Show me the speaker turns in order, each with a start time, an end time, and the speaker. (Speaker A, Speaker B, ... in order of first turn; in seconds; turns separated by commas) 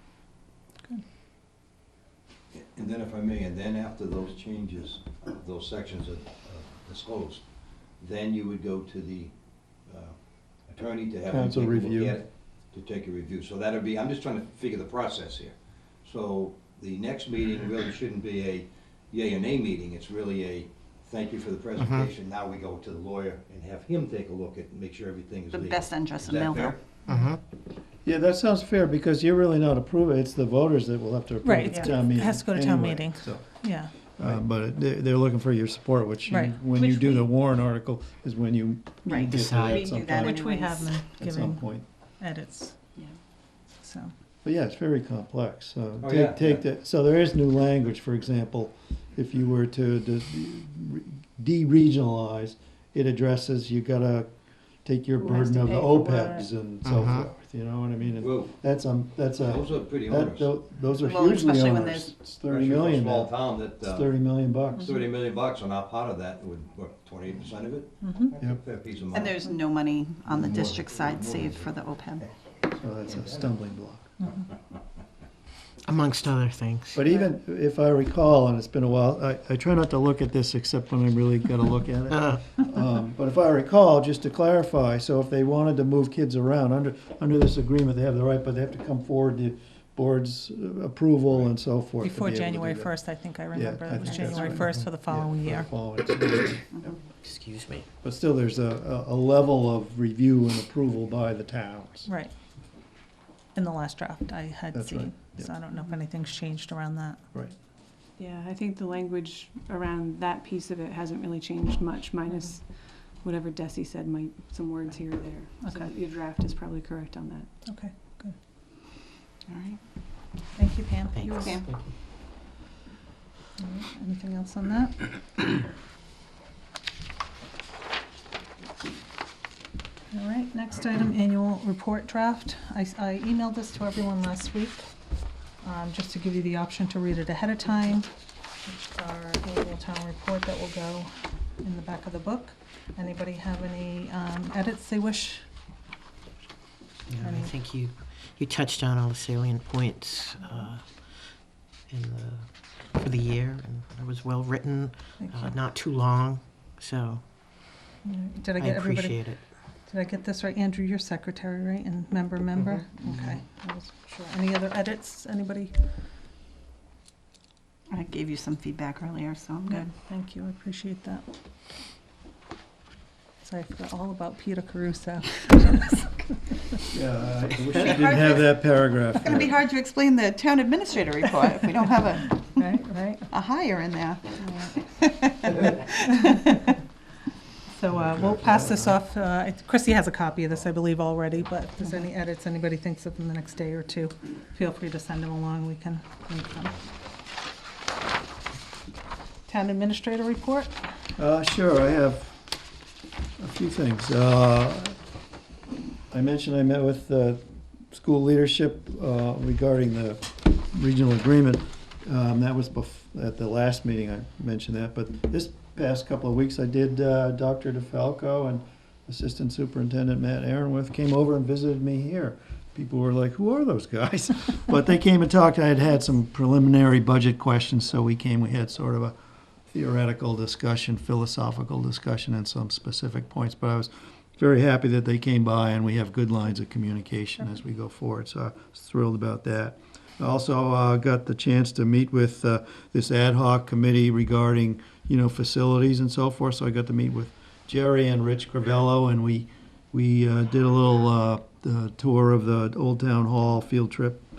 Speaker A: 2.5-26.8, Speaker B: 11.3-12.2, Speaker C: 21.8-22.1, Speaker D: 25.5-26.8, Speaker C: 27.1-27.4, Speaker B: 28.1-41.8, Speaker E: 31.4-33.9, Speaker A: 34.2-34.5, Speaker E: 36.3-36.5, Speaker D: 39.0-40.9, Speaker C: 39.3-39.9, Speaker E: 40.1-42.9, Speaker E: 43.7-44.1, Speaker B: 44.4-54.3, Speaker A: 46.0-46.6, Speaker B: 54.8-64.9, Speaker E: 55.2-55.8, Speaker C: 56.8-57.3, Speaker A: 58.2-58.5, Speaker A: 59.4-60.6, Speaker D: 61.0-62.1, Speaker A: 62.5-69.6, Speaker E: 68.0-68.3, Speaker D: 69.1-72.3, Speaker A: 70.3-72.3, Speaker B: 72.7-74.1, Speaker A: 73.1-73.6, Speaker C: 75.8-77.1, Speaker B: 76.9-97.0, Speaker E: 92.0-95.7, Speaker C: 94.5-94.9, Speaker C: 97.2-97.8, Speaker B: 98.0-102.1, Speaker E: 102.1-102.3, Speaker E: 103.5-107.2, Speaker B: 104.7-105.5, Speaker F: 108.2-117.6, Speaker E: 112.4-112.7, Speaker E: 115.6-115.9, Speaker E: 117.6-118.3, Speaker D: 119.5-119.8, Speaker E: 120.5-121.5, Speaker C: 121.1-121.9, Speaker D: 121.2-121.7, Speaker E: 123.6-125.2, Speaker E: 130.1-134.9, Speaker E: 135.6-138.1, Speaker E: 138.6-145.5, Speaker C: 147.1-157.8, Speaker E: 147.2-147.5, Speaker E: 155.2-155.6, Speaker E: 158.0-165.7, Speaker C: 158.6-159.4, Speaker D: 167.9-169.9, Speaker E: 169.7-171.2, Speaker E: 173.4-176.2, Speaker B: 176.9-179.6, Speaker D: 177.8-182.6, Speaker E: 182.5-183.3, Speaker D: 183.3-186.6, Speaker E: 187.7-196.8, Speaker B: 188.0-189.0, Speaker E: 199.5-200.9, Speaker B: 201.2-202.4, Speaker B: 203.4-205.0, Speaker B: 206.1-229.1, Speaker B: 229.7-254.2